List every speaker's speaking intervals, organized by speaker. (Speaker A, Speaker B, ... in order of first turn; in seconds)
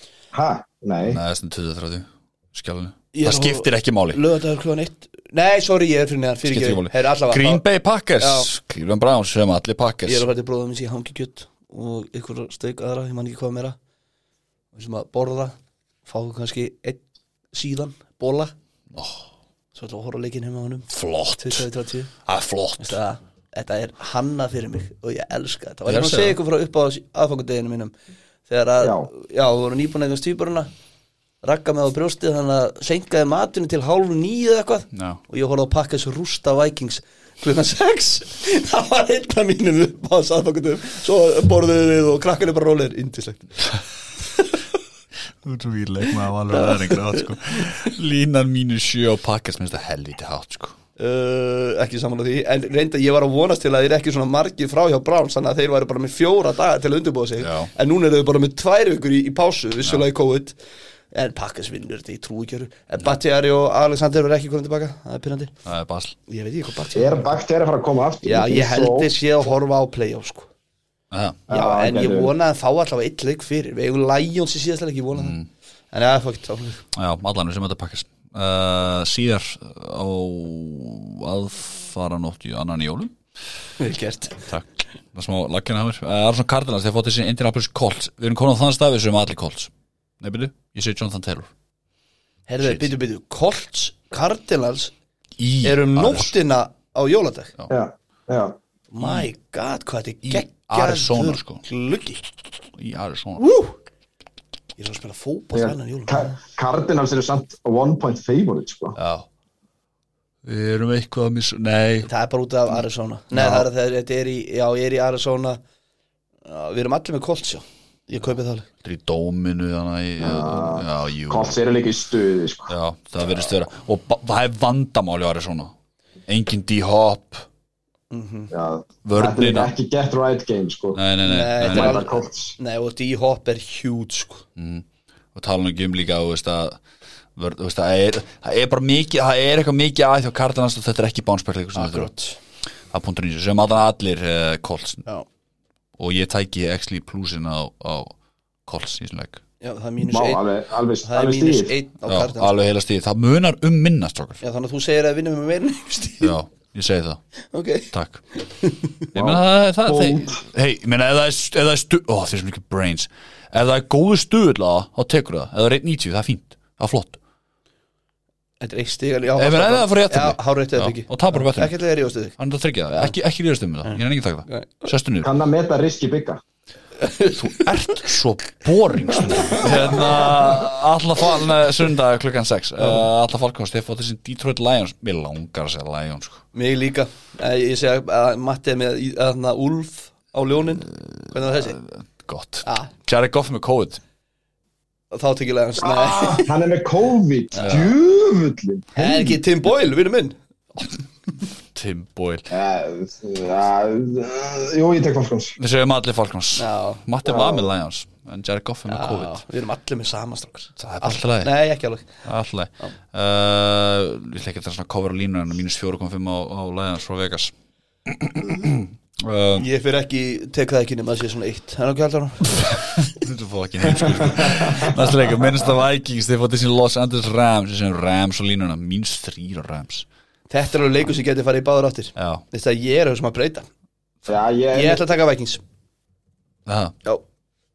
Speaker A: 0.3-1.2, 28.8-29.1, 66.9-69.2, 71.5-72.3, 97.7-98.6, 105.5-109.0, 120.2-122.7, 128.5-131.0, 131.6-132.6, 150.1-151.7, 159.1-160.4, 175.2-176.4, 195.8-199.3, 202.5-205.6, 207.2-207.7, 224.4-224.9, 234.3-235.0
Speaker B: 1.1-4.2, 6.4-10.2, 18.9-19.2, 20.9-21.6, 22.2-23.0, 25.9-26.4, 34.9-35.2, 45.4-50.8, 57.4-57.7, 65.7-66.2, 71.1-71.4, 75.1-75.5, 76.9-83.1, 84.4-91.5, 92.6-92.9, 95.4-96.3, 99.0-99.3, 100.3-101.6, 102.8-103.5, 109.0-109.2, 110.4-112.1, 113.3-113.7, 118.8-121.5, 122.7-125.7, 126.3-127.5, 129.0-129.7, 130.9-132.0, 134.6-136.8, 137.3-142.1, 142.9-145.0, 146.0-148.1, 148.7-149.4, 152.1-154.4, 156.2-157.2, 157.9-158.2, 159.1-167.2, 169.4-171.8, 172.4-175.3, 177.3-186.4, 190.9-194.0, 197.6-197.9, 201.7-202.5, 205.6-209.4, 210.8-211.5, 212.2-217.5, 218.1-219.7, 223.0-230.1, 232.2-232.4, 236.7-236.9
Speaker C: 3.1-7.6, 8.2-8.5, 10.1-13.8, 14.7-17.0, 17.5-18.5, 19.7-22.1, 22.8-27.9, 28.5-30.7, 31.4-43.5, 46.5-47.7, 51.0-60.6, 61.1-65.5, 66.3-67.2, 68.2-70.5, 71.5-75.3, 75.9-76.8, 83.8-84.5, 92.5-94.9, 95.6-97.5, 98.9-102.3, 103.4-103.7, 104.8-106.4, 112.0-115.6, 116.4-118.7, 128.1-128.5, 131.2-134.4, 141.7-142.4, 149.6-150.4, 151.0-152.5, 154.4-156.3, 157.5-158.9, 168.6-172.3, 173.8-174.9, 177.0-177.7, 179.3-179.9, 186.5-191.8, 192.6-192.9, 195.1-196.5, 198.9-200.4, 206.6-207.0, 208.9-212.2, 219.6-222.8, 230.5-233.7, 234.7-235.6